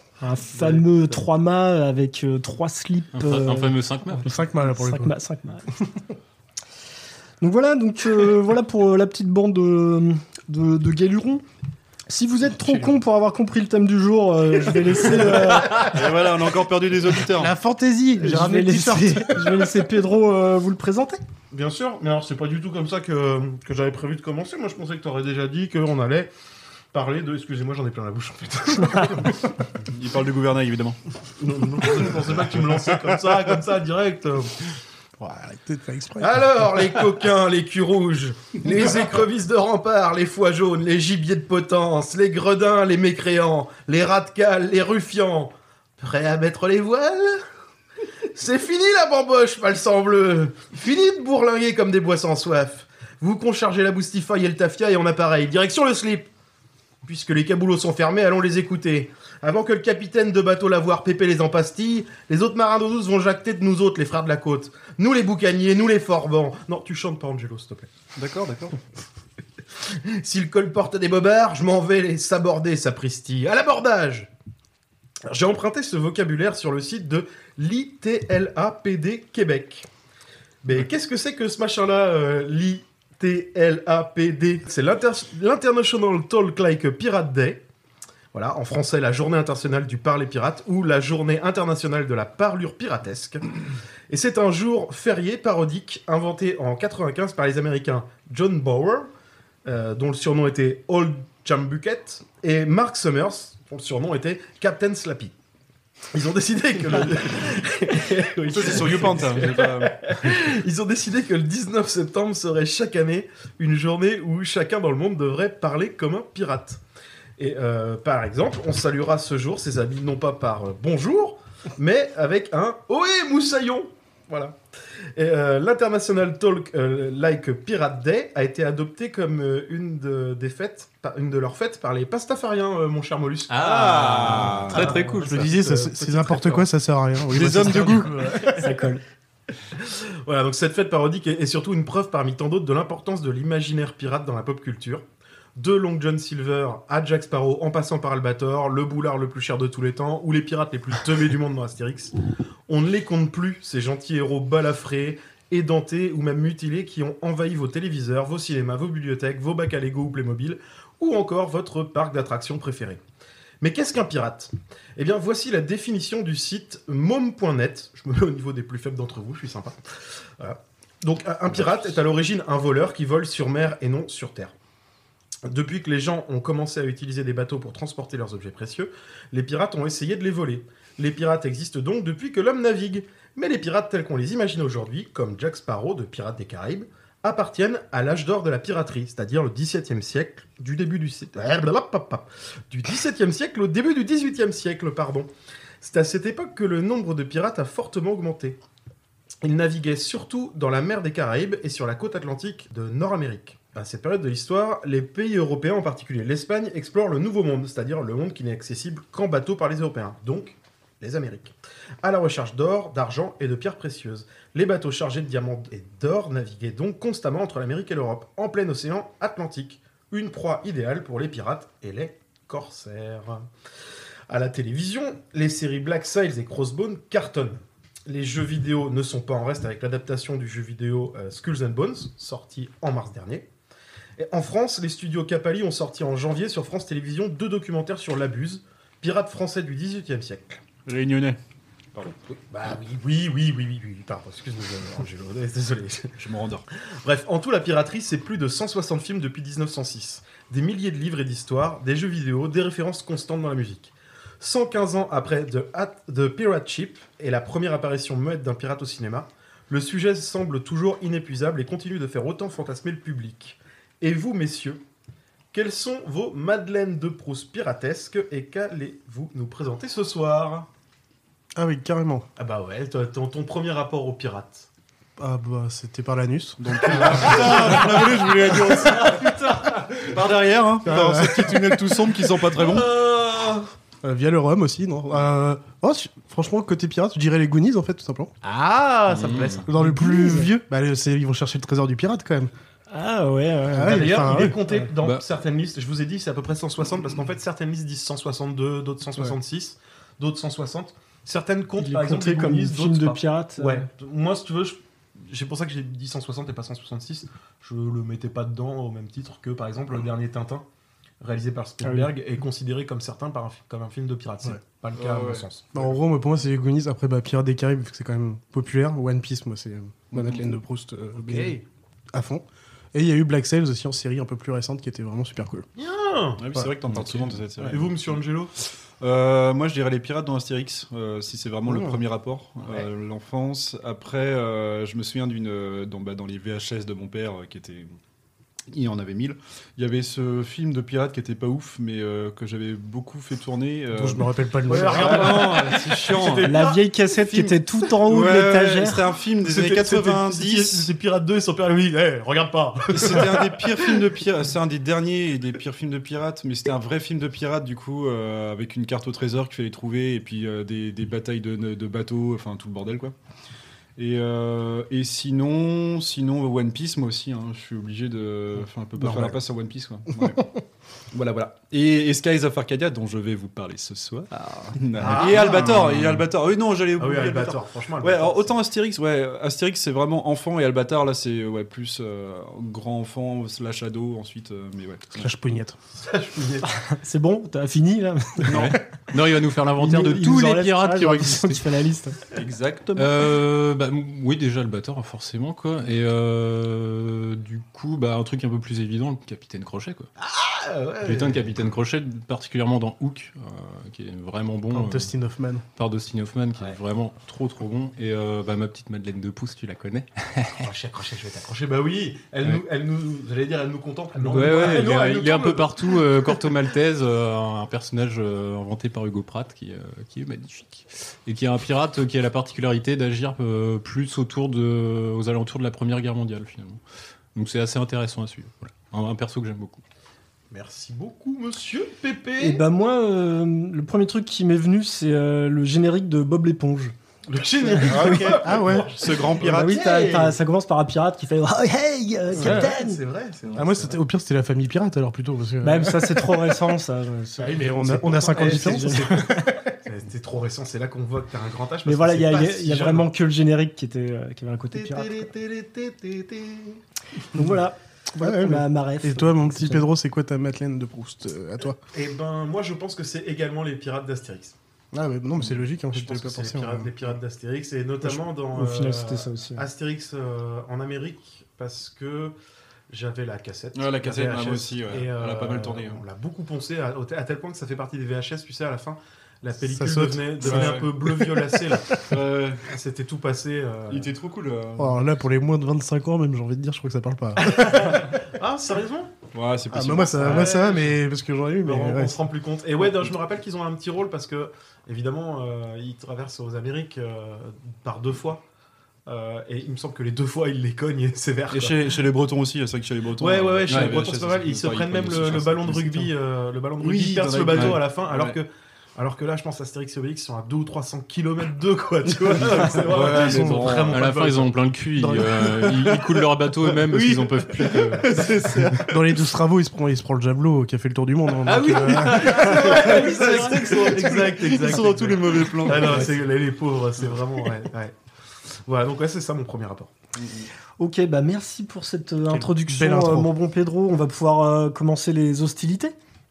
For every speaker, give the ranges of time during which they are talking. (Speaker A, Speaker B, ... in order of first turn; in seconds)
Speaker A: 0.2-5.7, 7.4-11.4, 12.1-15.9, 18.2-21.2, 138.6-139.0, 289.8-290.5, 292.9-294.9, 301.8-303.9, 311.8-312.1, 346.4-349.0, 386.9-388.7, 389.8-392.2, 432.4-436.9, 437.8-438.3, 439.4-443.0, 445.6-449.5, 451.8-455.3, 457.3-459.9, 468.5-469.6, 522.3-524.2, 530.8-535.9
Speaker B: 0.5-0.8, 15.6-17.5, 29.9-31.0, 68.2-68.8, 108.5-110.0, 133.6-134.9, 137.3-138.1, 171.6-171.8, 240.8-241.4, 246.2-246.7, 276.7-282.9, 314.9-315.4, 326.4-328.1, 329.0-337.9, 338.7-346.6, 348.0-350.9, 352.9-363.1, 364.0-370.5, 371.1-385.3, 388.5-388.8, 392.3-393.2, 414.2-415.0, 437.8-439.8, 473.7-476.0, 480.4-480.9, 482.0-482.6, 483.9-485.0, 489.3-490.7, 501.5-506.1, 506.8-508.4, 512.4-514.0, 515.6-516.0, 516.9-519.0, 521.5-526.2, 530.1-530.5
Speaker C: 3.1-4.3, 133.5-135.5, 289.1-289.6, 388.5-391.6, 392.9-400.1, 401.0-405.1, 405.8-410.6, 414.3-426.8, 427.3-429.8, 503.7-504.0, 507.5-507.8, 513.9-518.3
Speaker D: 4.2-5.1, 12.6-12.9, 17.3-19.7, 35.2-36.6, 135.2-138.7, 271.6-272.2, 275.2-278.0, 280.8-282.1, 284.0-288.3, 289.7-292.5, 293.7-294.6, 315.7-321.6, 322.1-325.6, 331.6-332.0, 343.9-345.5, 369.0-369.4, 385.1-385.8, 404.7-405.6, 438.4-438.9, 442.4-442.7, 443.5-446.6, 447.4-449.8, 458.2-461.8, 464.9-466.9, 479.6-481.5, 484.8-488.1, 489.7-492.2, 512.9-513.8, 518.9-522.7, 532.3-533.3
Speaker E: 21.5-26.3, 26.9-29.6, 31.4-34.5, 36.2-47.4, 48.3-56.3, 57.0-67.9, 69.8-74.3, 75.3-79.9, 80.6-87.6, 88.3-93.4, 94.1-99.1, 99.6-105.3, 106.1-116.8, 117.4-124.6, 125.2-136.7, 139.8-145.0, 145.6-152.1, 152.7-163.0, 163.6-169.8, 170.4-174.5, 175.4-195.3, 195.8-198.6, 199.4-223.5, 224.3-233.5, 234.2-240.6, 242.0-246.2, 247.0-264.8, 265.5-270.7, 272.4-274.7, 276.8-279.9, 282.5-283.7, 288.4-289.7, 293.8-310.6, 311.2-315.9, 321.2-321.6, 325.8-328.5, 344.7-347.5, 349.4-354.1, 374.9-376.3, 376.9-378.5, 385.9-386.7, 400.2-401.7, 410.6-416.5, 430.5-432.6, 437.3-440.4, 442.3-444.0, 447.4-449.2, 449.8-453.1, 454.7-456.8, 461.9-464.5, 465.9-472.3, 472.9-484.1, 487.4-489.1, 490.2-491.0, 491.6-498.4, 499.1-502.0, 503.2-514.5, 521.5-527.9, 528.6-529.9